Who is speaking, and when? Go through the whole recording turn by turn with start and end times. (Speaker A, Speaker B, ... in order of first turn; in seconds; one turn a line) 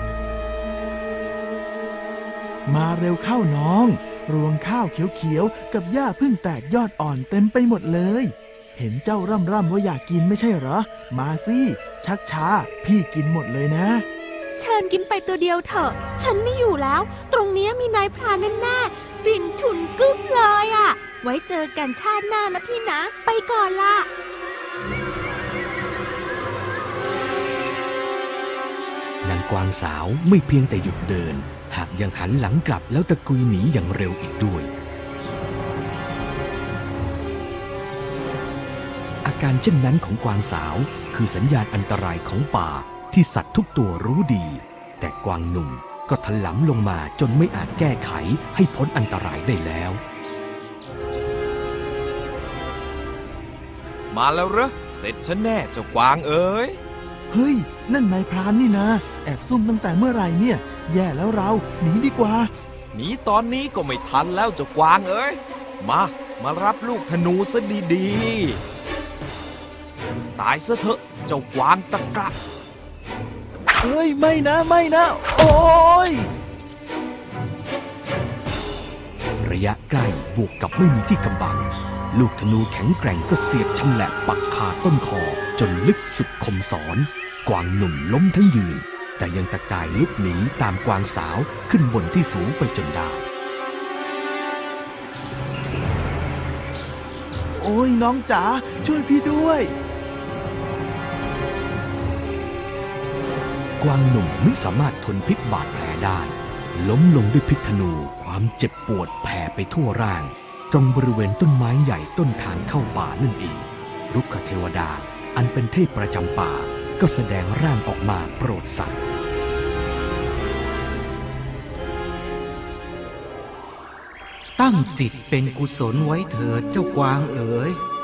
Speaker A: 2.7-14.1
Speaker B: 14.6-24.1
Speaker C: 29.2-34.7
Speaker C: 39.2-50.0
Speaker D: 54.1-56.8
Speaker A: 57.3-62.5
Speaker D: 62.9-68.6
Speaker D: 70.4-72.3
Speaker A: 73.8-76.3
Speaker C: 79.4-93.2
Speaker A: 97.6-99.7
Speaker C: 103.8-119.0
Speaker E: 124.6-127.8